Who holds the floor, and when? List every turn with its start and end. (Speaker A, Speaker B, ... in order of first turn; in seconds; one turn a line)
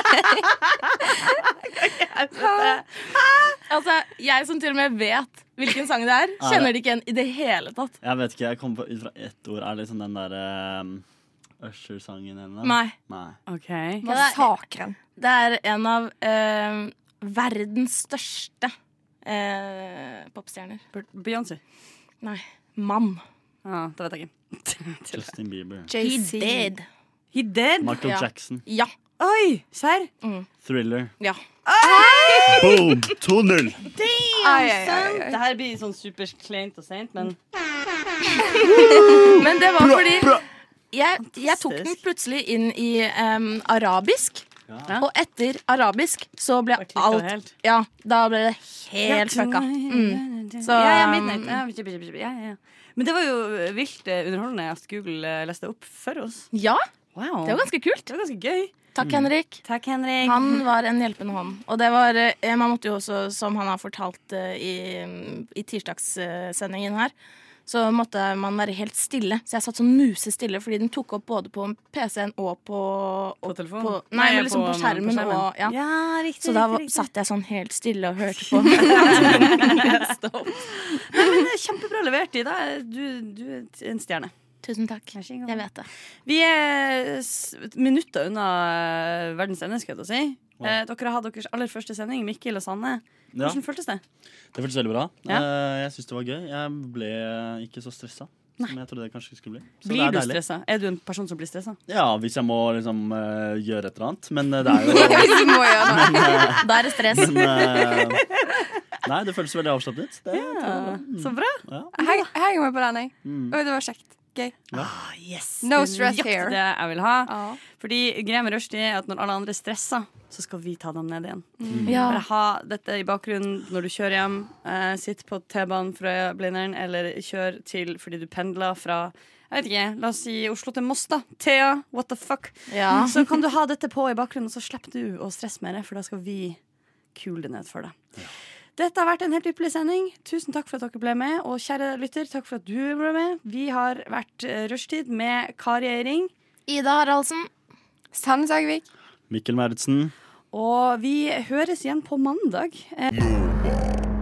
Speaker A: 1.8-2.8
Speaker B: 3.7-8.0
Speaker C: 6.4-6.7
Speaker C: 8.0-11.0
Speaker C: 11.6-13.4
Speaker B: 12.6-12.9
Speaker A: 13.5-14.0
Speaker D: 14.0-14.9
Speaker B: 14.0-14.6
Speaker B: 15.2-18.7
Speaker B: 19.2-20.8
Speaker A: 20.9-21.6
Speaker B: 22.2-23.2
Speaker A: 23.6-25.3
Speaker C: 25.1-25.9
Speaker D: 25.9-26.7
Speaker B: 26.0-26.9
Speaker A: 27.3-28.0
Speaker C: 27.8-28.6
Speaker B: 28.0-28.9
Speaker A: 29.2-30.1
Speaker B: 30.2-30.5
Speaker C: 30.6-31.1
Speaker A: 31.6-32.7
Speaker D: 31.8-32.8
Speaker C: 32.5-33.8
Speaker A: 33.9-37.4
Speaker D: 34.4-35.4
Speaker B: 38.4-44.4
Speaker C: 39.9-40.4
Speaker A: 41.3-42.0
Speaker B: 45.0-51.6
Speaker A: 46.8-47.5
Speaker A: 49.0-56.5
Speaker B: 56.5-56.8
Speaker A: 57.1-58.7
Speaker B: 57.4-58.1
Speaker B: 58.9-59.6
Speaker C: 59.0-59.3
Speaker A: 59.6-60.6
Speaker B: 60.2-67.1
Speaker B: 67.7-75.8
Speaker A: 73.5-77.1
Speaker B: 76.4-80.6
Speaker A: 78.5-84.3
Speaker B: 81.1-81.4
Speaker B: 84.6-85.9
Speaker A: 85.1-85.6
Speaker A: 86.2-94.0
Speaker C: 93.3-93.6
Speaker C: 94.5-100.4
Speaker A: 99.8-101.8
Speaker C: 101.9-108.3
Speaker D: 104.8-106.5
Speaker A: 106.1-106.5
Speaker B: 106.6-107.6
Speaker C: 109.0-111.9
Speaker A: 110.3-112.3
Speaker D: 112.0-114.5
Speaker C: 113.2-113.6
Speaker A: 114.7-136.6
Speaker D: 115.6-116.6
Speaker D: 121.6-121.9
Speaker C: 121.7-122.1
Speaker B: 121.8-122.2
Speaker B: 132.7-133.2
Speaker A: 137.1-137.9
Speaker A: 138.8-146.3
Speaker B: 146.7-147.5
Speaker D: 148.1-148.8
Speaker C: 149.3-150.1
Speaker A: 150.5-153.2